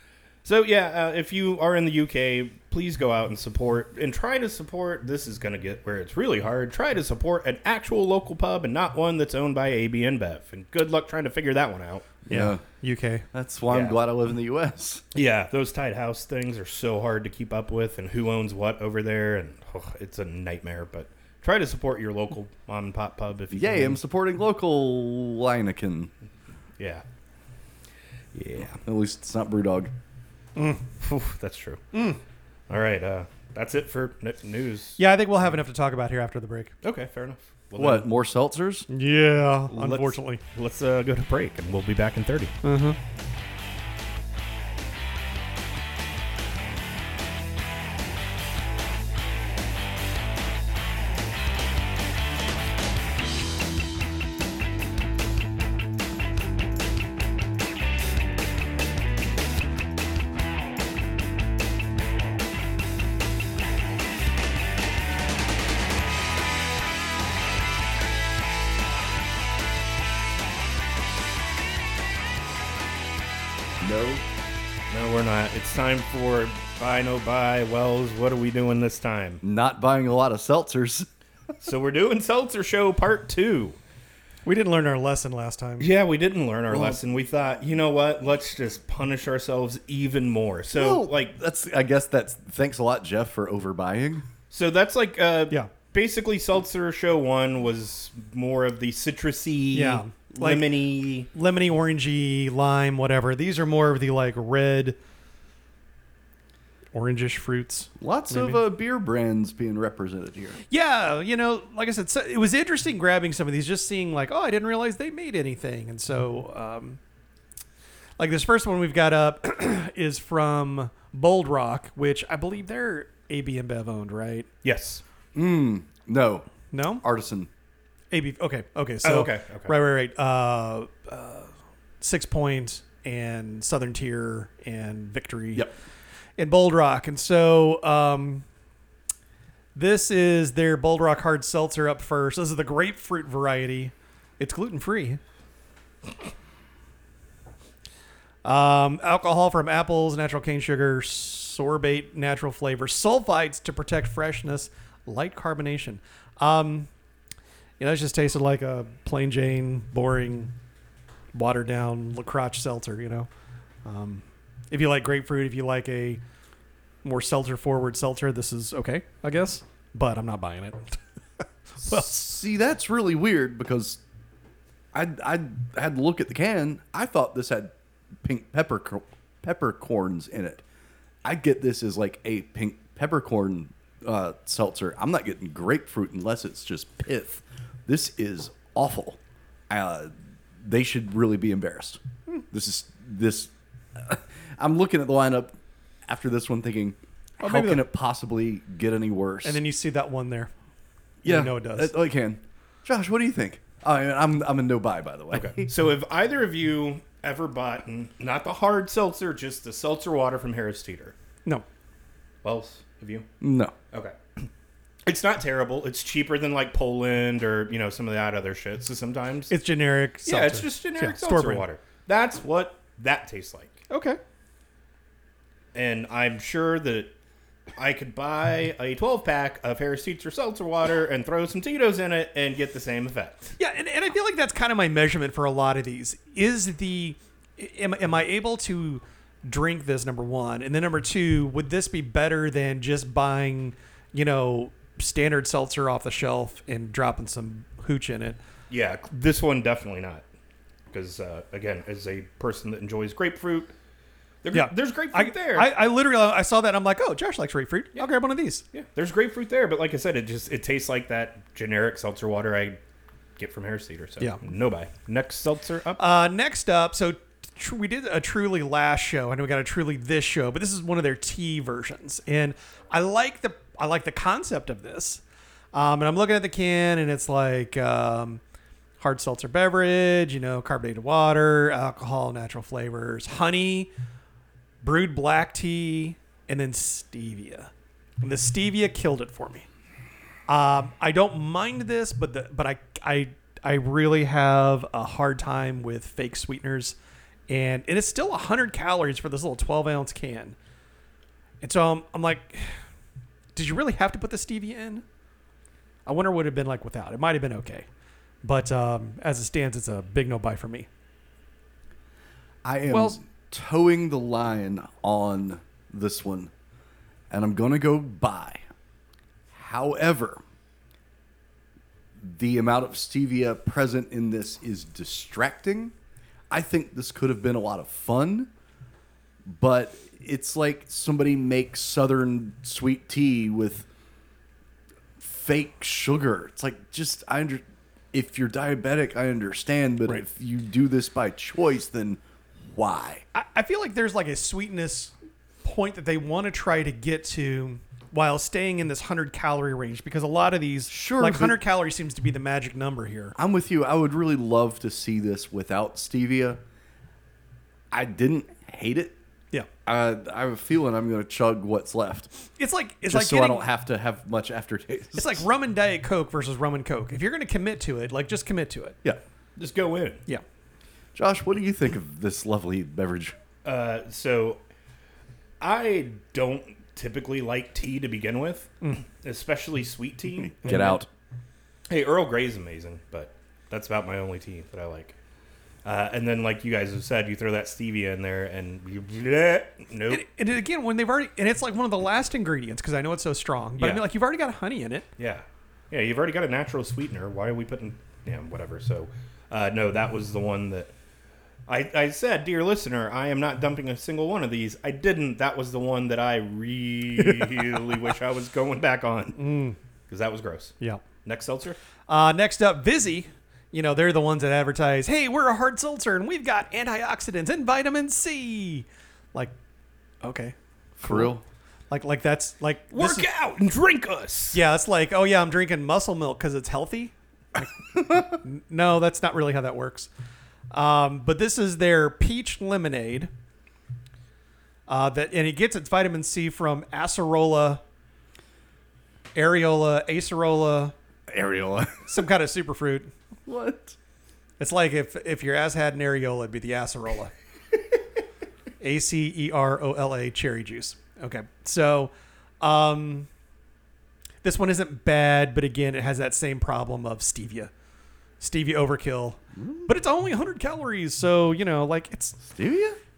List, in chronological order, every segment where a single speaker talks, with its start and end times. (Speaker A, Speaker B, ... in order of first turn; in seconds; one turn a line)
Speaker A: 0.4-12.1
Speaker B: 12.3-12.6
Speaker C: 12.3-13.2
Speaker B: 13.3-15.0
Speaker A: 13.7-14.0
Speaker A: 15.1-24.0
Speaker B: 23.5-26.1
Speaker A: 26.8-27.0
Speaker A: 28.3-28.8
Speaker B: 28.8-29.9
Speaker C: 30.6-30.8
Speaker A: 31.0-31.8
Speaker C: 31.9-32.2
Speaker A: 32.7-35.0
Speaker C: 35.0-36.7
Speaker A: 36.8-38.1
Speaker B: 37.8-38.9
Speaker C: 38.9-40.4
Speaker A: 39.7-42.5
Speaker C: 42.6-43.0
Speaker B: 73.8-74.2
Speaker A: 74.9-79.4
Speaker B: 79.4-81.1
Speaker A: 81.6-83.8
Speaker C: 84.5-85.9
Speaker A: 85.8-91.3
Speaker B: 86.7-87.0
Speaker B: 90.7-94.2
Speaker A: 94.5-101.3
Speaker C: 99.7-100.7
Speaker C: 101.3-105.0
Speaker C: 106.9-108.6
Speaker B: 108.0-110.6
Speaker C: 110.7-117.0
Speaker C: 118.2-124.5
Speaker A: 124.6-125.0
Speaker B: 125.3-126.5
Speaker C: 126.7-127.0
Speaker B: 127.0-127.5
Speaker C: 128.1-135.7
Speaker A: 129.0-129.7
Speaker C: 136.4-138.4
Speaker C: 139.7-145.2
Speaker C: 148.4-156.9
Speaker C: 157.8-160.5
Speaker C: 161.3-163.3
Speaker C: 163.8-166.2
Speaker C: 167.0-171.0
Speaker C: 171.8-172.2
Speaker B: 171.8-174.0
Speaker B: 174.9-180.6
Speaker B: 181.2-189.2
Speaker B: 189.7-192.0
Speaker B: 192.5-199.6
Speaker C: 197.4-197.8
Speaker C: 199.4-200.5
Speaker B: 201.2-205.7
Speaker C: 201.2-201.9
Speaker A: 205.3-211.1
Speaker A: 212.4-213.3
Speaker B: 213.4-213.7
Speaker A: 213.9-214.5
Speaker A: 215.0-219.5
Speaker C: 219.5-221.6
Speaker A: 220.2-223.8
Speaker C: 223.9-224.2
Speaker A: 225.7-227.1
Speaker A: 227.8-233.5
Speaker C: 233.6-248.4
Speaker A: 248.7-250.2
Speaker A: 250.9-253.7
Speaker A: 254.4-255.7
Speaker C: 254.5-258.6
Speaker A: 258.7-262.8
Speaker A: 263.4-266.0
Speaker C: 266.0-275.2
Speaker C: 275.7-278.4
Speaker C: 279.0-283.9
Speaker C: 284.8-289.6
Speaker C: 290.5-297.0
Speaker C: 297.5-300.6
Speaker C: 301.6-302.8
Speaker C: 303.5-305.0
Speaker C: 306.1-307.9
Speaker C: 308.4-310.9
Speaker B: 312.6-316.5
Speaker C: 312.9-313.2
Speaker B: 317.3-318.6
Speaker B: 319.5-320.4
Speaker B: 322.2-325.9
Speaker B: 326.5-328.5
Speaker B: 329.4-333.9
Speaker B: 335.2-343.2
Speaker C: 343.3-345.1
Speaker C: 345.6-353.4
Speaker B: 350.9-351.6
Speaker B: 353.4-356.6
Speaker B: 357.9-359.1
Speaker B: 359.9-362.3
Speaker C: 362.6-363.7
Speaker B: 363.1-365.4
Speaker C: 365.1-369.0
Speaker A: 369.6-370.2
Speaker B: 371.1-373.4
Speaker A: 373.6-374.6
Speaker A: 375.6-380.9
Speaker B: 380.6-381.1
Speaker C: 380.6-381.0
Speaker A: 381.9-385.2
Speaker A: 385.8-390.2
Speaker C: 390.1-395.1
Speaker A: 393.8-394.1
Speaker A: 395.2-400.9
Speaker A: 401.7-409.4
Speaker C: 409.4-409.8
Speaker A: 410.1-411.8
Speaker C: 412.1-419.5
Speaker C: 420.2-421.4
Speaker B: 421.0-421.4
Speaker C: 421.9-423.3
Speaker A: 422.9-424.6
Speaker C: 424.5-430.1
Speaker C: 430.7-433.3
Speaker C: 434.9-437.8
Speaker C: 439.3-440.9
Speaker B: 441.3-442.2
Speaker C: 442.1-443.1
Speaker B: 443.4-444.0
Speaker C: 444.6-447.3
Speaker C: 448.8-453.3
Speaker C: 454.4-457.7
Speaker C: 458.4-462.4
Speaker B: 459.5-459.9
Speaker B: 462.4-463.0